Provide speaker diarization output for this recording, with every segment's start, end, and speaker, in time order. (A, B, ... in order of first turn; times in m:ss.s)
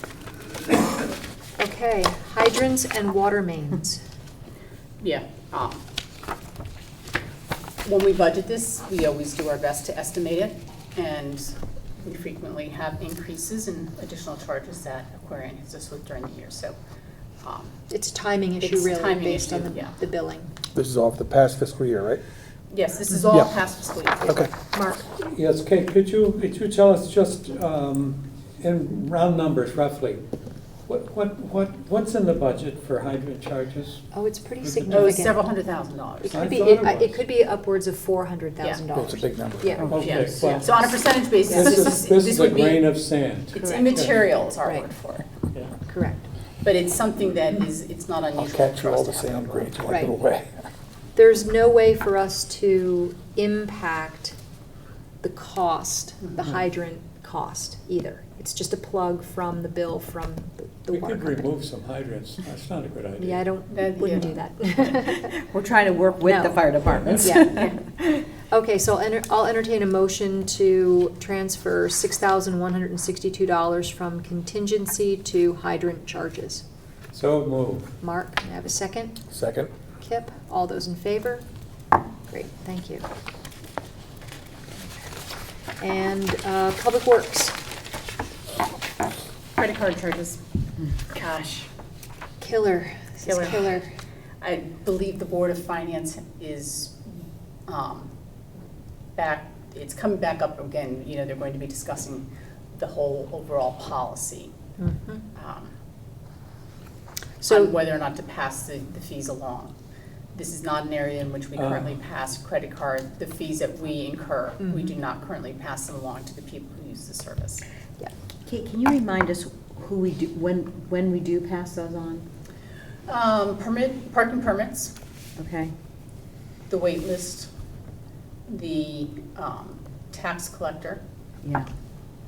0:01.6-0:04.0 A
0:05.0-0:05.8 B
0:07.8-0:16.7 B
0:17.4-0:17.7 B
0:17.9-0:20.5 A
0:18.6-0:19.9 B
0:20.7-0:22.2 C
0:22.7-0:24.4 B
0:24.7-0:25.1 A
0:25.2-0:30.2 D
0:30.9-0:34.0 D
0:34.1-0:35.4 A
0:34.6-0:35.0 D
0:34.9-0:36.4 B
0:36.2-0:40.6 A
0:36.3-0:37.2 D
0:38.9-0:39.8 C
0:39.8-0:40.1 E
0:39.8-0:44.2 D
0:40.0-0:42.9 B
0:41.5-0:41.8 A
0:43.5-0:45.3 B
0:45.9-0:46.3 A
0:46.6-0:49.9 B
0:48.4-0:50.6 C
0:51.1-0:54.3 A
0:55.2-1:01.5 A
1:00.9-1:03.5 D
1:03.2-1:05.3 A
1:03.7-1:04.3 B
1:05.2-1:08.2 E
1:06.2-1:06.7 A
1:06.8-1:07.4 D
1:07.2-1:07.6 A
1:08.5-1:16.6 A
1:17.1-1:17.9 D
1:18.0-1:19.2 A
1:19.3-1:19.7 C
1:20.0-1:21.4 A
1:22.3-1:23.0 A
1:25.8-1:27.6 A
1:29.6-1:31.7 B
1:32.4-1:33.9 A
1:33.2-1:33.8 B
1:34.4-1:38.1 B
1:39.2-1:44.5 B
1:44.8-1:45.2 A
1:45.3-1:45.7 B
1:47.4-1:49.7 B
1:47.5-1:47.7 A
1:50.3-1:57.6 B
1:51.6-1:51.9 D
1:58.4-2:02.3 E
2:03.1-2:04.9 B
2:05.4-2:05.7 E
2:06.7-2:07.5 B
2:08.5-2:11.0 B
2:11.4-2:11.7 E